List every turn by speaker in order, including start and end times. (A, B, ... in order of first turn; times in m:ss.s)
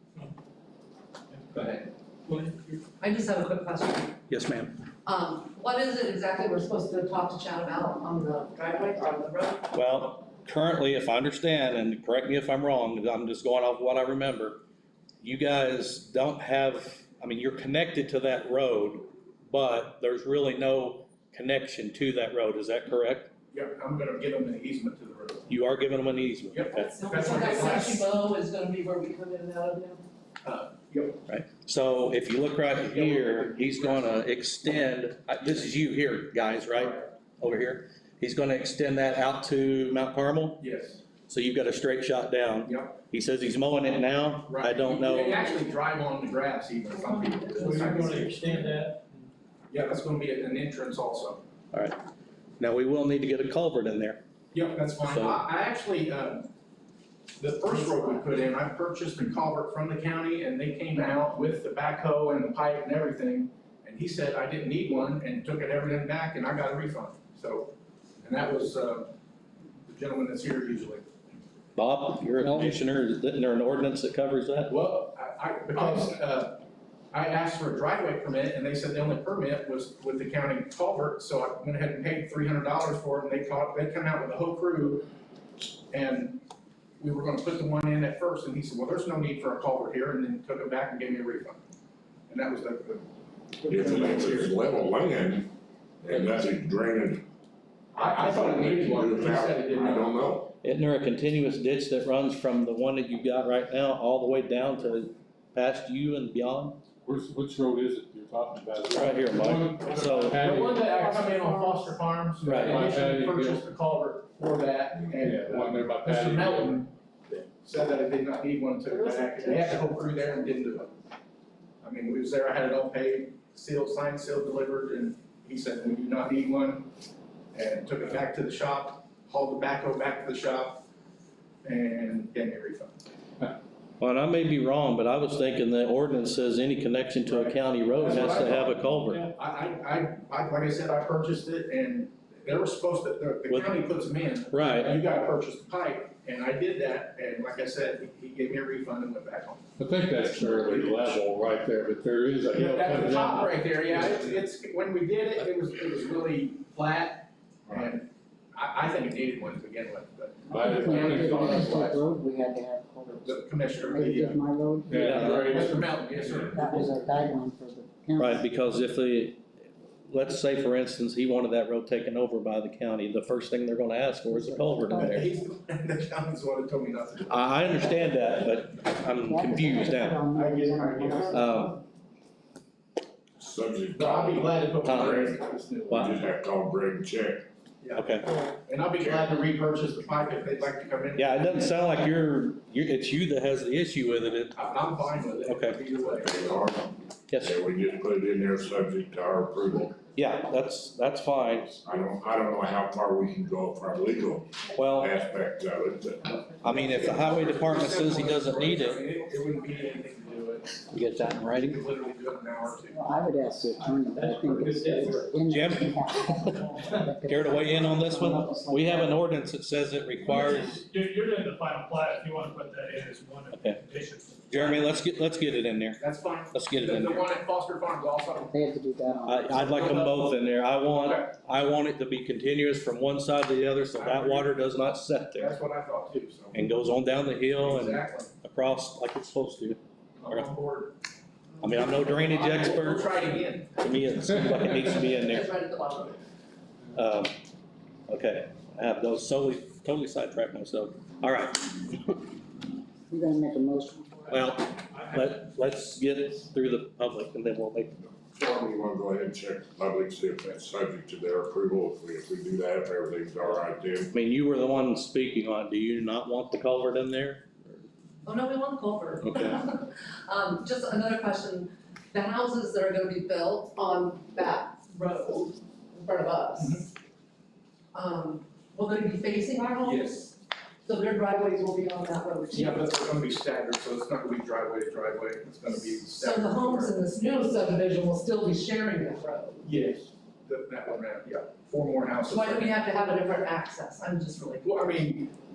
0:01.5-0:02.8 A
0:03.0-0:04.2 B
0:04.3-0:04.8 C
0:05.0-0:09.7 B
0:09.7-0:14.6 C
0:15.2-0:23.3 C
0:23.5-0:25.5 D
0:25.5-0:26.9 C
0:26.5-0:28.0 D
0:26.7-0:30.0 B
0:30.4-0:31.2 D
0:31.3-0:40.6 C
0:32.9-0:34.2 D
0:36.8-0:37.0 D
0:40.6-0:41.0 D
0:41.3-0:45.5 C
0:42.6-0:43.0 D
0:44.5-0:48.4 D
0:47.0-0:48.6 B
0:47.5-0:49.0 A
0:49.7-0:51.4 D
0:51.7-0:52.0 C
0:52.6-0:54.2 C
0:54.5-0:56.5 D
0:55.0-0:55.4 C
0:57.4-1:09.1 D
1:09.9-1:11.1 D
1:11.8-1:14.7 C
1:14.7-1:25.1 D
1:25.9-1:26.4 D
1:27.0-1:31.6 D
1:32.3-1:33.1 D
1:33.7-1:35.5 E
1:33.8-1:34.3 D
1:36.0-1:37.2 E
1:38.0-1:40.3 D
1:38.2-1:40.5 E
1:40.6-1:46.8 C
1:47.0-1:50.9 F
1:48.9-1:50.4 C
1:50.3-2:00.9 D
1:50.9-1:51.9 B
1:52.4-1:53.6 F
1:52.4-1:52.9 C
1:55.1-1:56.8 F
1:58.9-2:00.8 B
2:01.8-2:06.9 D
2:07.5-2:10.8 D
2:11.6-2:12.9 D
2:14.0-2:19.2 C
2:17.2-2:29.6 D
2:23.5-2:23.8 C
2:24.5-2:25.0 C
2:29.8-2:34.4 F
2:32.5-2:42.0 D
2:40.5-2:45.8 G
2:40.5-2:42.0 F
2:43.2-2:44.4 D
2:44.9-2:47.0 F
2:45.0-2:45.6 C
2:45.1-2:47.0 D
2:46.5-2:48.5 G
2:48.2-2:49.4 C
2:50.1-2:55.3 C
2:54.3-2:55.4 G
2:55.0-2:58.1 D
2:57.3-3:00.2 C
2:59.2-3:01.8 G
3:00.4-3:01.3 D
3:01.3-3:01.8 C
3:03.4-3:05.4 E
3:03.9-3:06.2 D
3:04.8-3:05.2 C
3:05.9-3:07.5 E
3:07.8-3:11.8 D
3:07.9-3:08.3 C
3:11.2-3:14.6 C
3:14.6-3:16.4 D
3:15.4-3:15.8 C
3:16.1-3:20.0 E
3:17.3-3:17.6 C
3:20.2-3:21.7 C
3:21.7-3:26.4 E
3:24.8-3:25.2 C
3:26.2-3:27.8 B
3:26.6-3:29.0 C
3:26.7-3:30.8 D
3:28.4-3:30.1 B
3:30.9-3:31.8 C
3:31.5-3:33.1 D
3:32.8-3:39.4 G
3:33.8-3:35.8 A
3:35.5-3:36.6 C
3:36.6-3:37.6 A
3:37.2-3:40.8 C
3:40.2-3:45.0 A
3:40.3-3:40.8 G
3:43.5-3:43.8 C
3:44.5-3:47.3 C
3:46.0-3:48.5 D
3:48.5-3:50.0 G
3:49.2-3:55.5 C
3:49.6-3:50.2 D
3:50.9-3:51.3 D
3:53.9-3:54.7 D
3:55.3-3:56.6 D
3:56.5-4:00.5 C
3:57.6-3:58.3 D
4:00.2-4:01.0 D
4:01.6-4:03.1 C
4:01.7-4:03.9 D
4:03.8-4:05.5 C
4:04.9-4:06.2 B
4:06.9-4:07.4 C
4:08.1-4:12.0 C
4:13.1-4:14.2 G
4:14.3-4:17.9 C
4:18.3-4:24.1 E
4:24.1-4:27.8 C
4:28.2-4:36.9 B
4:37.9-4:40.2 B
4:39.8-4:40.3 D
4:40.8-4:42.8 B
4:42.5-4:46.9 D
4:46.1-4:49.7 B
4:49.6-4:52.8 D
4:52.2-4:54.8 B
4:54.6-4:55.3 D